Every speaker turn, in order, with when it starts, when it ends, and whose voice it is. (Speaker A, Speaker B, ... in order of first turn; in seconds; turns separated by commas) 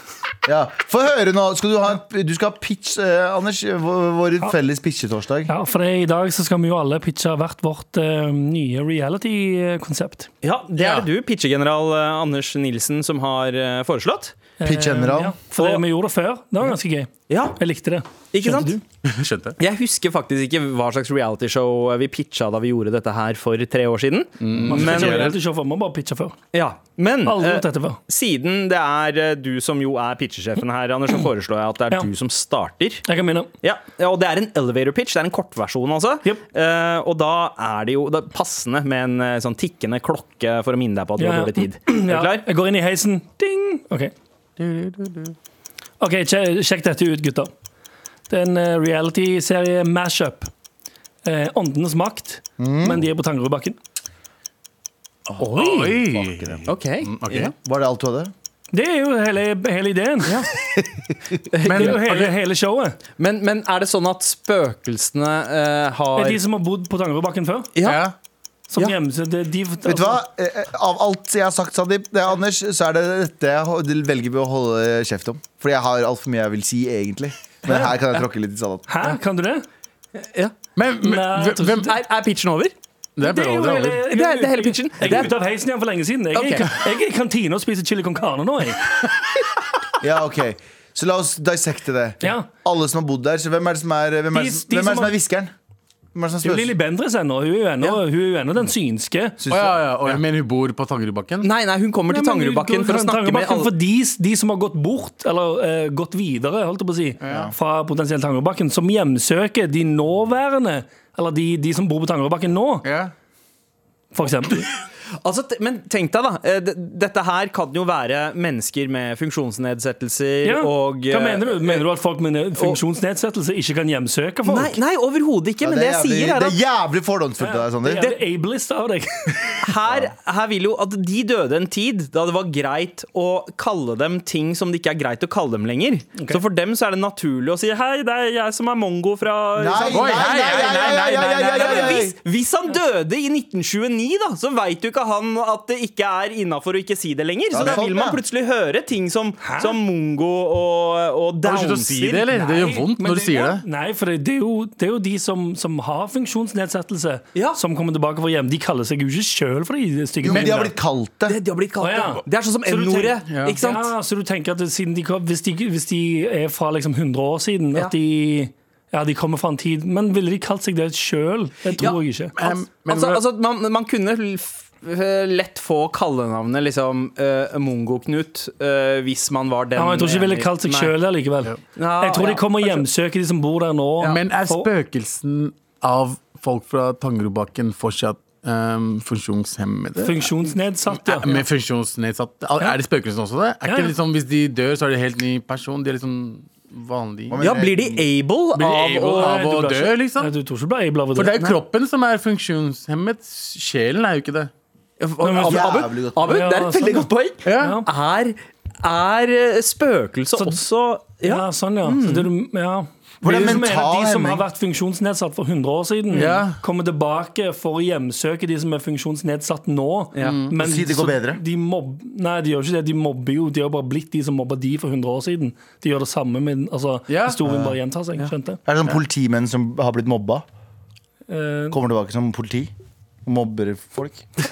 Speaker A: 0.5-5.5, Speaker B: 5.5-10.3, Speaker C: 10.4-14.3, Speaker D: 10.8-11.1, Speaker B: 14.6-18.8, Speaker A: 14.6-15.4, Speaker C: 15.6-15.8, Speaker C: 17.3-17.6, Speaker C: 18.3-18.8, Speaker D: 19.0-19.6, Speaker C: 19.6-25.2, Speaker D: 24.4-25.4, Speaker B: 24.6-26.4, Speaker C: 26.5-33.0, Speaker B: 27.2-28.0, Speaker B: 33.0-33.5, Speaker C: 33.6-42.4, Speaker B: 41.2-44.1, Speaker D: 44.6-45.3, Speaker B: 46.0-47.5, Speaker B: 48.3-50.5, Speaker B: 51.2-53.8, Speaker A: 52.6-53.0, Speaker D: 55.3-57.5, Speaker C: 55.4-56.1, Speaker A: 56.0-56.6, Speaker C: 56.7-57.5, Speaker A: 57.6-58.3, Speaker B: 58.7-60.4, Speaker C: 61.5-62.2, Speaker B: 61.6-63.0, Speaker D: 61.6-62.3, Speaker C: 63.2-66.4, Speaker B: 66.1-67.7, Speaker C: 67.7-68.0, Speaker D: 67.8-68.1, Speaker B: 68.7-70.2, Speaker A: 69.8-78.9, Speaker B: 78.9-79.6, Speaker C: 80.2-80.5, Speaker D: 80.7-81.9, Speaker B: 81.0-81.9, Speaker C: 81.9-82.7, Speaker D: 83.2-84.1, Speaker B: 83.2-88.9, Speaker C: 84.1-85.3, Speaker C: 86.3-86.7, Speaker A: 90.0-95.5, Speaker B: 92.2-92.5, Speaker B: 94.3-95.1, Speaker A: 96.1-96.7, Speaker B: 96.4-99.4, Speaker A: 99.4-100.2, Speaker D: 99.5-101.5, Speaker C: 101.4-103.7, Speaker B: 102.1-112.8, Speaker D: 107.2-107.5, Speaker A: 107.2-107.5, Speaker D: 112.8-113.1, Speaker B: 114.1-114.6, Speaker C: 115.2-121.8, Speaker B: 120.4-124.8, Speaker C: 124.4-126.6, Speaker A: 125.6-128.1, Speaker B: 127.4-129.6, Speaker C: 129.6-152.3, Speaker A: 139.6-142.2, Speaker D: 139.9-142.0, Speaker A: 147.5-148.2, Speaker B: 149.4-149.8, Speaker D: 151.4-153.6, Speaker B: 152.3-160.7, Speaker A: 160.2-161.4, Speaker D: 160.3-160.6, Speaker C: 161.3-163.9, Speaker B: 161.8-172.3, Speaker D: 163.3-163.6, Speaker C: 171.8-180.9, Speaker D: 172.3-173.2, Speaker B: 179.8-184.7, Speaker C: 181.8-182.8, Speaker D: 184.0-190.3, Speaker B: 190.0-191.3, Speaker D: 190.9-197.4, Speaker B: 193.6-193.9, Speaker A: 197.3-198.0, Speaker C: 197.4-199.4, Speaker D: 198.5-200.3, Speaker B: 199.1-201.4, Speaker D: 201.1-204.5, Speaker C: 205.0-212.3, Speaker B: 205.2-207.8, Speaker A: 205.4-206.3, Speaker D: 207.4-207.8, Speaker B: 210.4-210.6, Speaker B: 211.2-228.6, Speaker A: 213.2-214.4, Speaker D: 216.1-216.6, Speaker C: 216.1-216.4, Speaker C: 220.1-220.4, Speaker D: 220.2-220.5, Speaker A: 220.6-221.4, Speaker D: 227.1-227.4, Speaker A: 227.4-227.8, Speaker A: 228.7-230.4, Speaker B: 231.3-231.8, Speaker A: 231.7-232.7, Speaker A: 233.2-234.3